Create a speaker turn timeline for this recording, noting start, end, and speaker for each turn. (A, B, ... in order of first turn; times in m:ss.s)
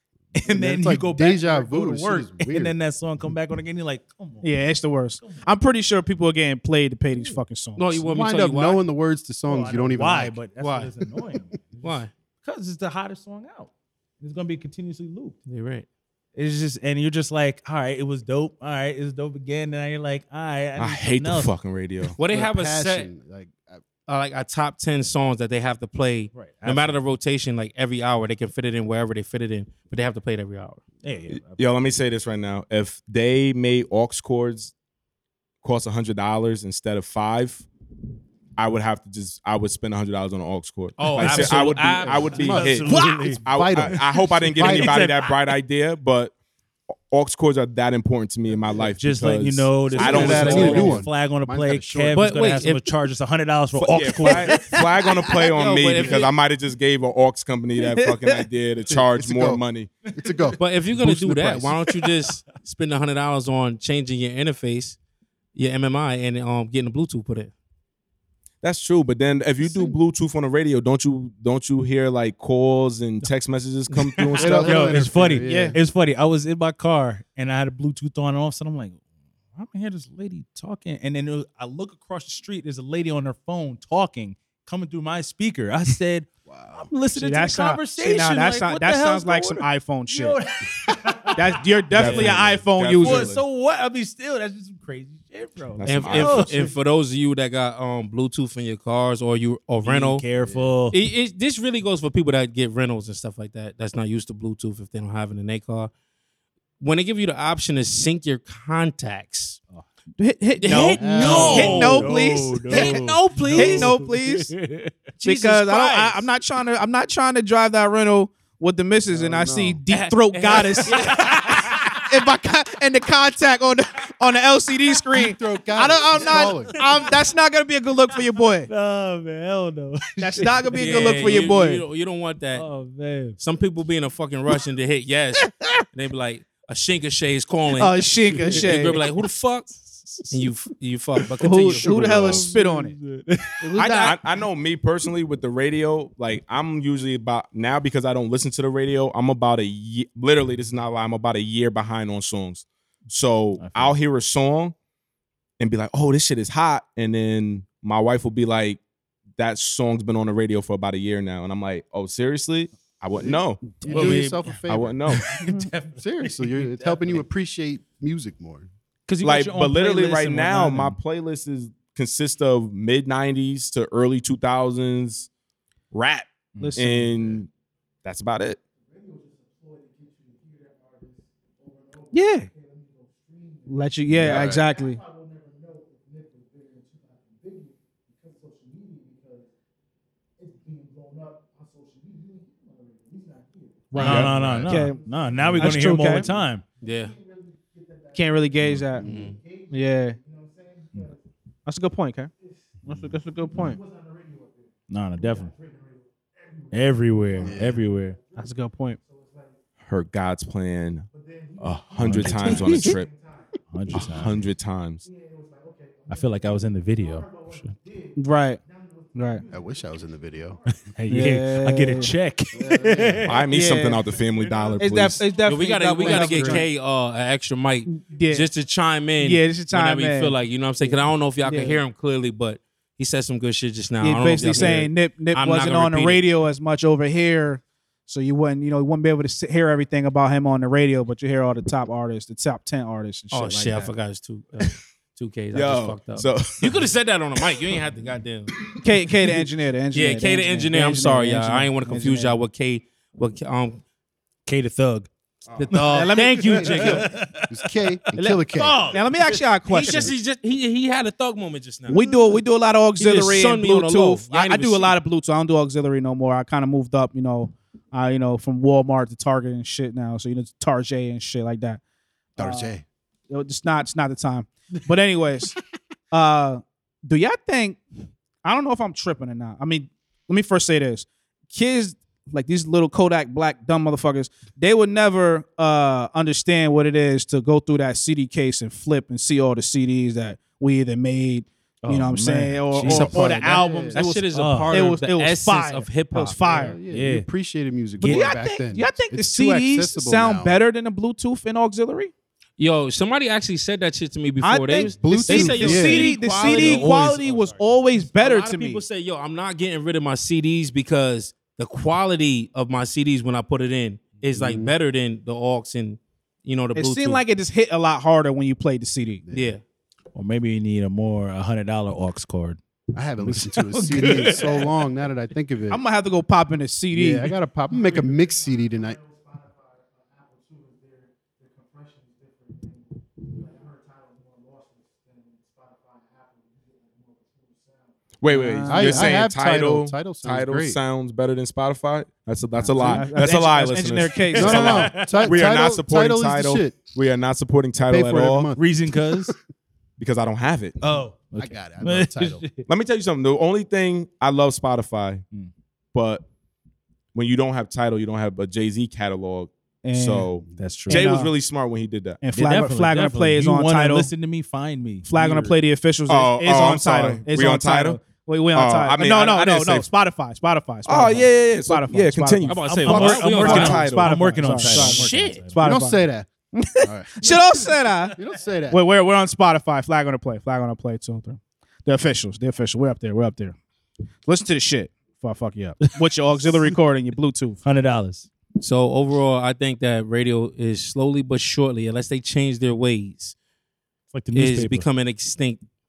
0:00.3-0:04.5 A
0:00.4-0:02.7 B
0:04.4-0:07.9 C
0:07.8-0:08.8 D
0:08.0-0:10.4 B
0:09.4-0:11.8 A
0:10.6-0:10.9 D
0:11.8-0:12.1 D
0:12.4-0:15.4 A
0:15.4-0:15.9 D
0:16.4-0:21.5 A
0:20.8-0:22.2 E
0:22.2-0:23.1 D
0:22.2-0:23.8 B
0:24.1-0:30.8 D
0:26.3-0:27.0 A
0:31.0-0:31.6 A
0:31.3-0:34.7 E
0:35.6-0:37.6 E
0:38.6-0:46.3 E
0:41.0-0:42.7 D
0:41.2-0:45.5 A
0:41.8-0:45.1 B
0:47.1-0:51.0 E
0:49.0-0:54.8 A
0:49.9-0:52.4 B
0:50.2-0:50.8 D
0:52.1-0:52.9 D
0:53.7-0:59.9 E
0:55.3-0:56.3 D
0:57.8-0:58.4 C
0:58.9-0:59.6 B
1:00.1-1:01.7 B
1:00.2-1:01.7 A
1:00.6-1:05.0 D
1:05.5-1:07.5 D
1:08.6-1:15.2 E
1:13.9-1:14.7 D
1:14.4-1:15.8 B
1:14.5-1:19.0 A
1:15.4-1:15.8 C
1:19.5-1:32.4 A
1:26.5-1:26.9 B
1:27.1-1:30.4 C
1:31.3-1:33.3 C
1:31.9-1:33.4 E
1:33.0-1:36.7 A
1:35.7-1:36.6 E
1:35.8-1:40.2 D
1:39.8-1:41.0 A
1:40.4-1:40.8 B
1:40.9-1:45.9 D
1:46.8-1:49.6 D
1:50.2-1:54.5 C
1:50.6-1:52.1 D
1:51.0-1:52.1 B
1:51.1-1:54.9 A
1:52.7-1:53.9 D
1:55.2-1:56.2 D
1:55.2-2:08.7 C
1:59.1-1:59.8 B
1:59.9-2:01.8 D
2:00.9-2:01.4 A
2:05.1-2:06.8 B
2:08.7-2:11.5 A
2:10.2-2:11.8 C
2:10.7-2:12.7 D
2:12.5-2:13.4 A
2:13.4-2:22.1 D
2:17.8-2:19.0 C
2:18.3-2:18.9 A
2:21.4-2:23.0 C
2:21.5-2:23.7 A
2:22.0-2:22.5 E
2:23.6-2:24.2 C
2:23.8-2:24.1 D
2:23.8-2:34.7 E
2:33.6-2:33.9 A
2:35.6-2:38.8 E
2:39.4-2:45.4 E
2:43.2-2:45.2 B
2:43.8-2:44.6 A
2:45.1-2:47.2 A
2:45.4-2:45.7 C
2:46.0-2:48.7 B
2:49.1-2:51.0 A
2:49.2-2:55.3 E
2:55.9-2:57.5 E
2:56.6-2:57.4 C
2:58.0-2:58.6 E
3:02.1-3:02.5 C
3:03.6-3:05.0 C
3:04.1-3:04.7 B
3:04.2-3:04.6 E
3:13.9-3:16.3 C
3:13.9-3:16.6 A
3:14.0-3:14.9 B
3:14.0-3:14.2 D
3:14.0-3:14.7 E
3:16.8-3:17.2 D
3:18.1-3:19.2 C
3:18.8-3:19.4 B
3:19.0-3:19.4 D
3:19.7-3:20.2 C
3:21.6-3:22.3 C
3:22.8-3:23.8 C
3:24.9-3:25.6 A
3:26.7-3:28.2 A
3:27.4-3:27.8 B
3:28.3-3:29.0 C
3:29.8-3:33.1 E
3:32.0-3:32.9 A
3:32.4-3:32.9 C
3:33.7-3:34.5 A
3:33.9-3:35.0 E
3:36.1-3:37.8 A
3:38.1-3:38.6 C
3:39.1-3:39.4 C
3:39.5-3:40.6 B
3:40.8-3:43.4 A
3:41.1-3:42.1 C
3:42.5-3:43.3 B
3:43.2-3:45.2 E
3:43.5-3:44.0 C
3:44.8-3:46.6 C
3:45.4-3:56.2 D
3:46.0-3:46.6 B
3:47.9-3:48.5 C
3:49.2-3:50.4 C
3:50.9-3:51.8 C
3:54.0-4:03.9 C
4:03.3-4:08.5 D
4:05.5-4:06.9 E
4:08.8-4:12.4 C
4:09.9-4:13.8 D
4:14.4-4:15.1 A
4:15.5-4:15.7 E
4:15.6-4:17.1 D
4:15.7-4:19.4 A
4:15.8-4:17.0 C
4:17.5-4:19.0 B
4:18.1-4:20.1 C
4:19.7-4:22.0 D
4:21.9-4:31.8 C
4:23.0-4:24.9 D
4:32.4-4:32.8 B
4:32.4-4:32.7 C
4:33.3-4:35.6 C
4:36.1-4:37.8 C
4:38.4-4:56.8 C
4:51.8-4:53.5 A
4:52.8-4:56.7 D
4:53.0-4:54.0 B
4:54.3-4:54.7 A
4:56.4-5:00.6 B
4:56.9-4:57.3 A
4:58.0-4:58.4 A
4:58.0-5:02.1 C
5:02.6-5:06.9 D
5:04.4-5:08.8 C
5:04.9-5:06.1 B
5:06.0-5:07.6 A
5:08.0-5:17.2 D
5:14.3-5:14.7 B
5:16.7-5:19.2 C
5:19.2-5:19.6 B
5:19.3-5:19.6 D
5:20.1-5:22.6 A
5:22.9-5:25.8 B
5:23.2-5:24.7 A
5:25.7-5:27.3 C
5:26.9-5:29.0 B
5:38.2-5:48.5 E
5:38.3-5:39.0 C
5:38.6-5:40.8 B
5:38.7-5:39.1 A
5:42.6-5:43.1 B
5:42.8-5:44.9 C
5:44.4-5:46.8 B
5:44.4-5:45.4 A
5:47.8-5:49.3 B
5:48.6-5:49.3 A
5:50.0-5:50.8 E
5:50.8-5:52.6 A
5:51.3-5:52.4 B
5:52.6-5:55.2 E
5:55.9-5:56.2 E
5:57.1-6:02.2 E
5:59.8-6:00.3 C
6:00.6-6:01.1 A
6:00.9-6:01.3 C
6:02.2-6:04.1 C
6:02.3-6:05.6 A
6:05.0-6:18.2 C
6:06.1-6:08.0 E
6:08.5-6:09.9 E
6:10.8-6:14.9 E
6:12.5-6:13.8 D
6:12.6-6:15.6 A
6:14.7-6:15.4 D
6:15.6-6:16.3 B
6:16.8-6:18.8 B
6:18.7-6:23.6 C
6:24.2-6:27.6 C
6:27.6-6:28.3 A
6:28.6-6:33.3 D
6:34.1-6:34.9 A
6:34.3-6:35.6 D